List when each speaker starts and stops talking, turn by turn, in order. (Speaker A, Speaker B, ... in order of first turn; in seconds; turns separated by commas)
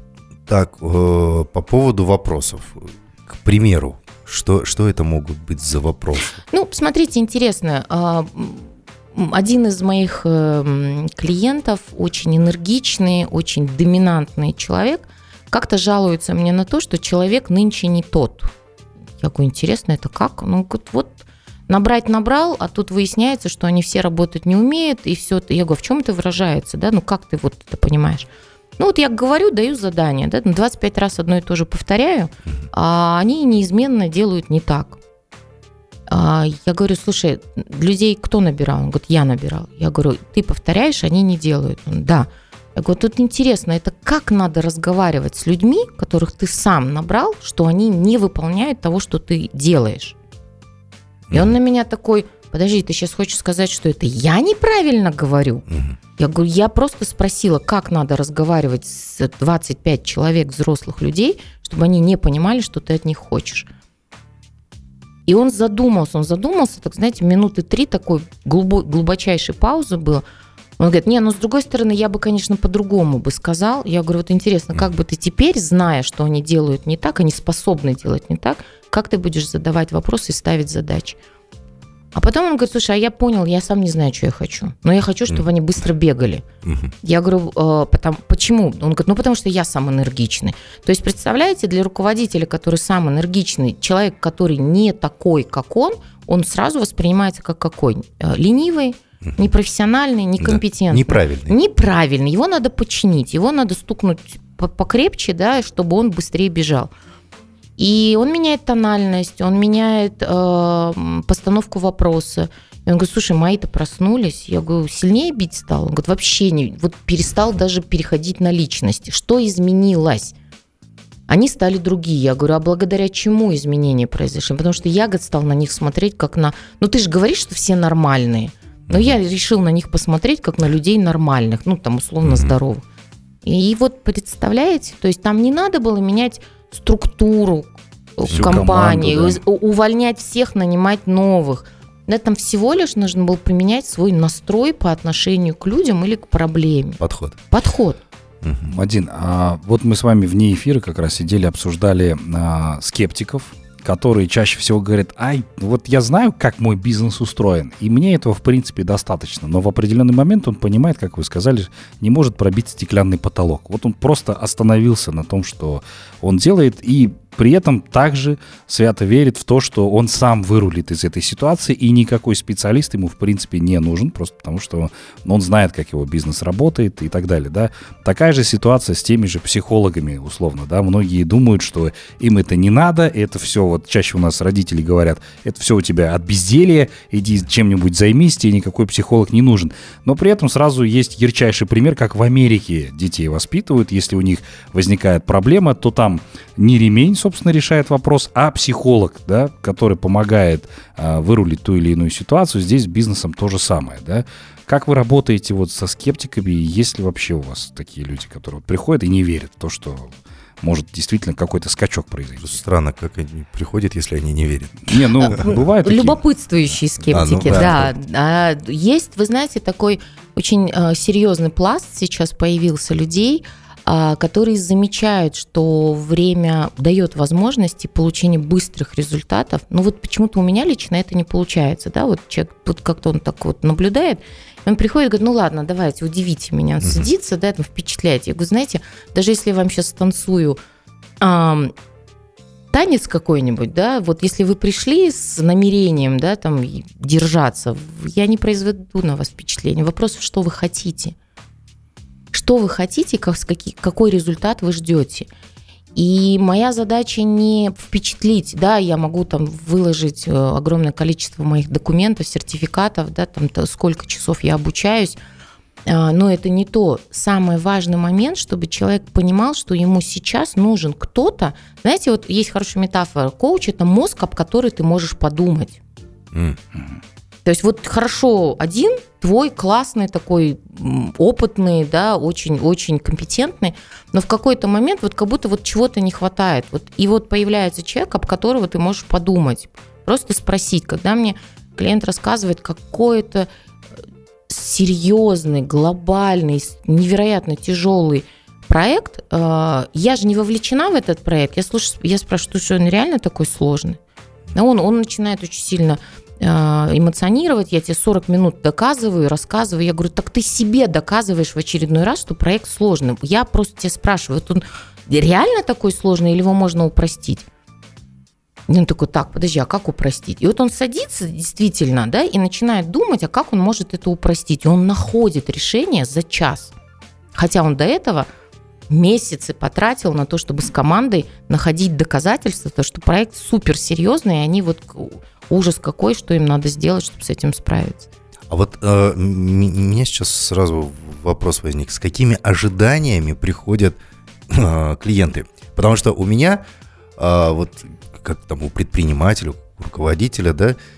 Speaker A: 0.5-6.4, Speaker B: 6.5-18.5, Speaker B: 19.2-35.0, Speaker B: 36.1-50.1, Speaker A: 51.3-51.5, Speaker B: 51.3-55.6, Speaker A: 55.7-55.9, Speaker B: 56.2-63.7, Speaker B: 65.3-70.2, Speaker B: 70.8-81.2, Speaker B: 82.1-86.4, Speaker A: 86.6-86.9, Speaker B: 87.0-106.9, Speaker A: 100.4-101.5, Speaker B: 107.8-120.3, Speaker B: 121.3-132.8, Speaker A: 128.9-129.2, Speaker A: 132.2-132.5, Speaker B: 133.4-147.0, Speaker A: 138.3-138.6, Speaker C: 138.3-139.4, Speaker A: 147.0-147.3, Speaker B: 147.5-148.0, Speaker A: 148.4-148.7, Speaker C: 148.7-212.6, Speaker A: 212.4-214.8, Speaker C: 214.9-216.2, Speaker B: 214.9-240.6, Speaker C: 216.7-217.8, Speaker A: 217.1-217.9, Speaker B: 241.2-241.7, Speaker B: 242.7-251.1, Speaker B: 252.3-255.3, Speaker B: 255.9-265.2, Speaker B: 265.9-275.8, Speaker A: 276.3-276.6, Speaker B: 277.4-293.5, Speaker B: 294.5-304.0, Speaker B: 304.5-317.5, Speaker B: 318.7-326.7, Speaker B: 327.3-328.3, Speaker B: 328.9-338.1, Speaker A: 338.5-344.0, Speaker A: 344.5-346.6, Speaker A: 347.2-350.8